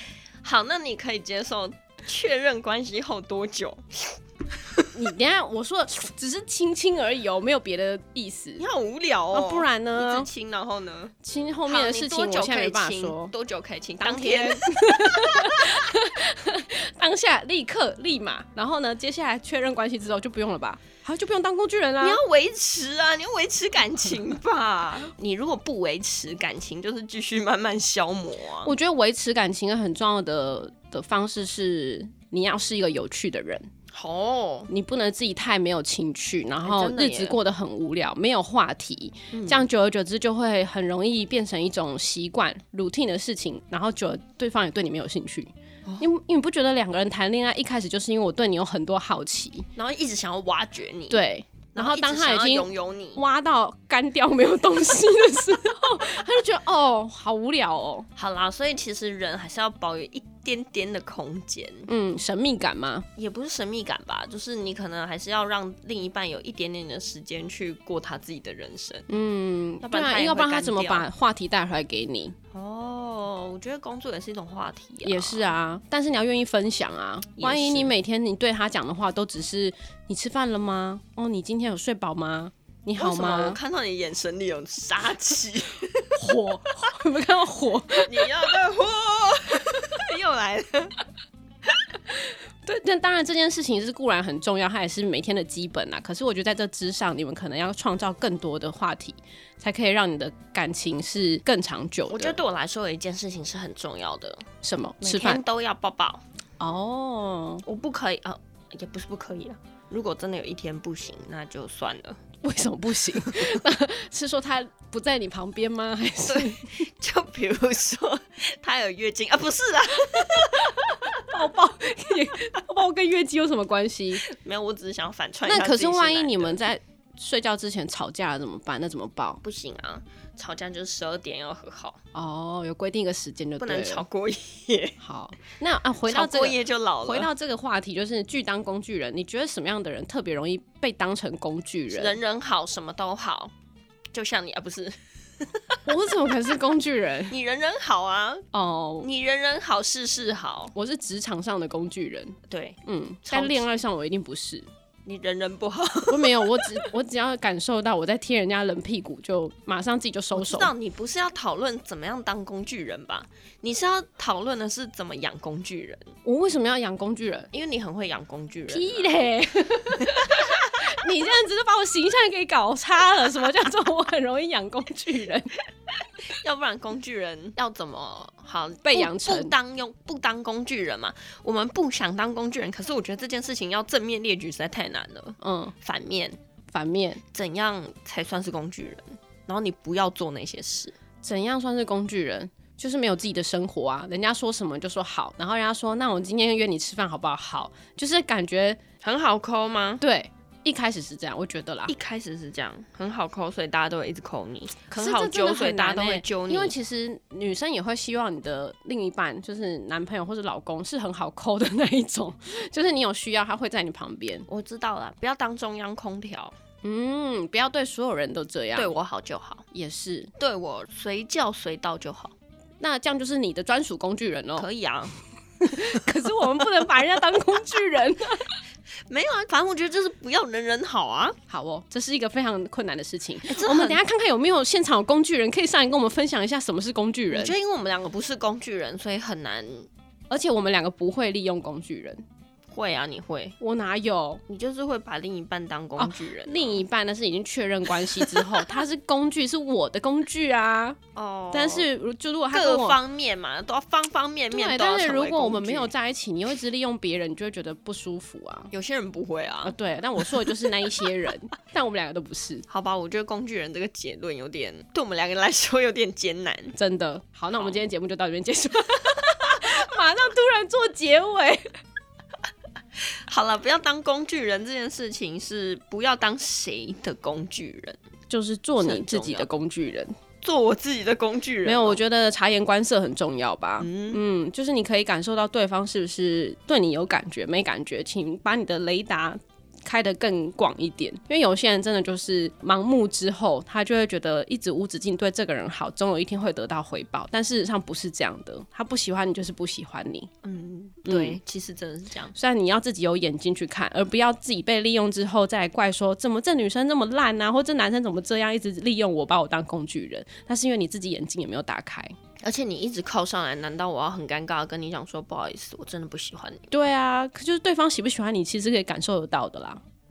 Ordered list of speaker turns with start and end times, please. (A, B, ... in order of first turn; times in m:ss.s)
0:00.4-0:04.9 A
0:04.9-0:08.6 B
0:08.6-0:11.1 A
0:09.3-0:10.3 B
0:11.2-0:13.3 B
0:11.6-0:15.8 A
0:14.0-0:22.2 B
0:22.0-0:28.7 A
0:28.6-0:33.7 B
0:33.9-0:34.7 A
0:34.7-0:49.7 B
0:36.6-0:37.4 A
0:39.3-0:39.7 A
0:49.8-0:51.2 A
0:51.1-0:58.1 B
0:51.7-0:53.2 A
0:58.2-1:01.9 A
1:01.9-1:03.1 B
1:03.2-1:09.1 A
1:09.1-1:12.4 B
1:09.8-1:11.1 A
1:12.5-1:15.5 A
1:15.0-1:23.6 B
1:17.4-1:17.9 A
1:23.0-1:26.2 A
1:26.2-1:28.3 B
1:28.0-1:31.0 A
1:32.6-1:42.4 B
1:42.1-1:44.4 A
1:44.6-1:45.4 B
1:45.0-1:46.2 A
1:46.6-1:47.6 B
1:47.6-1:52.2 A
1:52.4-1:56.9 B
1:56.2-2:01.2 A
2:00.2-2:04.2 B
2:04.2-2:06.6 A
2:05.4-2:09.4 B
2:09.4-2:12.0 A
2:12.1-2:14.0 B
2:13.6-2:15.0 A
2:15.0-2:22.2 B
2:16.0-2:17.3 A
2:21.9-2:23.5 A
2:24.1-2:25.8 A
2:25.8-2:27.3 B
2:27.3-2:28.4 A
2:28.5-2:29.1 B
2:29.0-2:30.7 A
2:30.7-2:34.7 B
2:32.5-2:33.7 A
2:35.0-2:36.8 A
2:36.1-2:40.7 B
2:40.3-2:46.1 A
2:46.2-2:47.5 B
2:47.5-2:49.2 A
2:48.7-2:55.6 B
2:50.0-2:50.9 A
2:56.2-3:06.4 A
2:58.8-2:59.5 B
3:05.4-3:05.7 B
3:06.7-3:07.2 B
3:07.3-3:10.9 A
3:11.2-3:18.8 B
3:19.0-3:20.0 A
3:20.0-3:21.9 B
3:21.9-3:26.7 A
3:24.9-3:34.5 B
3:34.5-3:36.5 A
3:36.8-3:38.9 B
3:38.7-3:39.6 A
3:39.7-3:40.3 B
3:40.4-3:42.3 A
3:42.8-3:44.6 B
3:44.6-3:45.1 A
3:45.6-3:48.5 B
3:49.1-3:51.4 A
3:51.5-3:57.5 B
3:53.4-3:54.0 A
3:57.3-3:59.9 A
4:00.3-4:02.2 B
4:02.7-4:03.6 A
4:03.6-4:04.4 B
4:04.5-4:06.8 A
4:06.0-4:11.0 B
4:08.1-4:08.7 A
4:11.1-4:11.9 A
4:11.5-4:13.0 B
4:12.5-4:15.9 A
4:14.5-4:18.7 B
4:18.7-4:20.5 A
4:19.6-4:22.6 B
4:22.7-4:26.7 A
4:26.7-4:31.7 B
4:33.0-4:38.0 A
4:38.3-4:40.1 B
4:38.8-4:39.5 A
4:40.4-4:42.0 A
4:41.6-5:00.3 B
4:43.8-4:44.2 A
5:00.4-5:02.3 A
5:01.0-5:01.4 B
5:02.3-5:12.1 B
5:12.4-5:16.6 A
5:16.7-5:19.8 B